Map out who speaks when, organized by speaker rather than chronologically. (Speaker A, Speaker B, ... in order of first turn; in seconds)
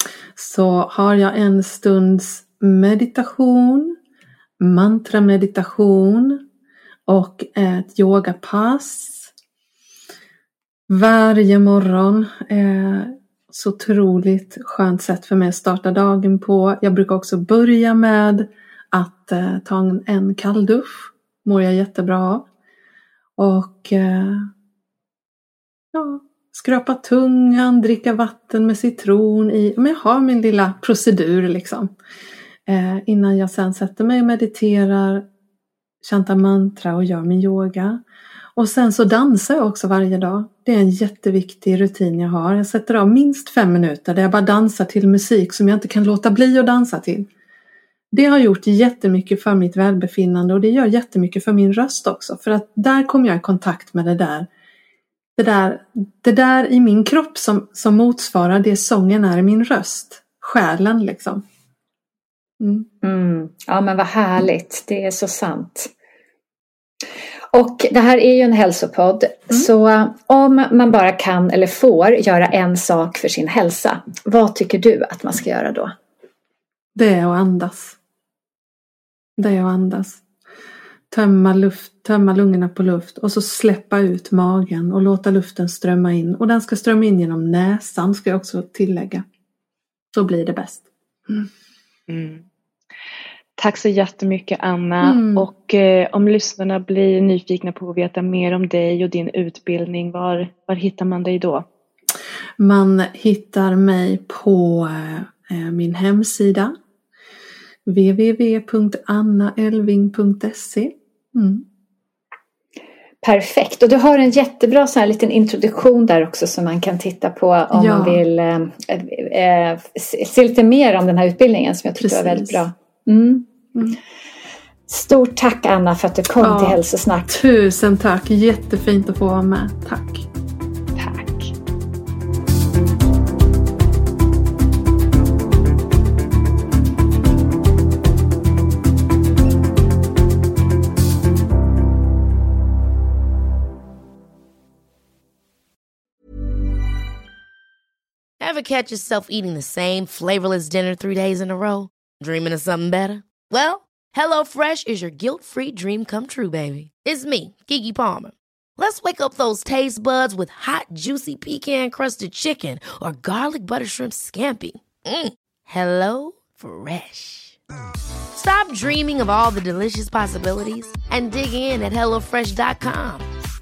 Speaker A: 0.3-4.0, 4.6-6.4, 7.1-9.3, 10.9-22.5, 23.4-24.5, 25.9-31.9, 32.7-35.2, 36.0-38.0, 38.5-47.3, 48.1-54.5, 55.4-61.4, 62.6-62.9, 76.9-78.0, 79.4-80.2, 81.1-89.2, 90.1-91.5, 95.0-95.5, 102.6-106.7, 107.8-111.6, 117.7-118.2, 122.0-122.7, 126.4-130.3
Speaker B: 63.0-65.9, 67.5-75.9, 113.2-123.5, 124.9-127.4
Speaker C: 92.1-92.4, 93.6-101.6, 131.0-131.4
Speaker D: 148.4-167.6, 168.3-173.3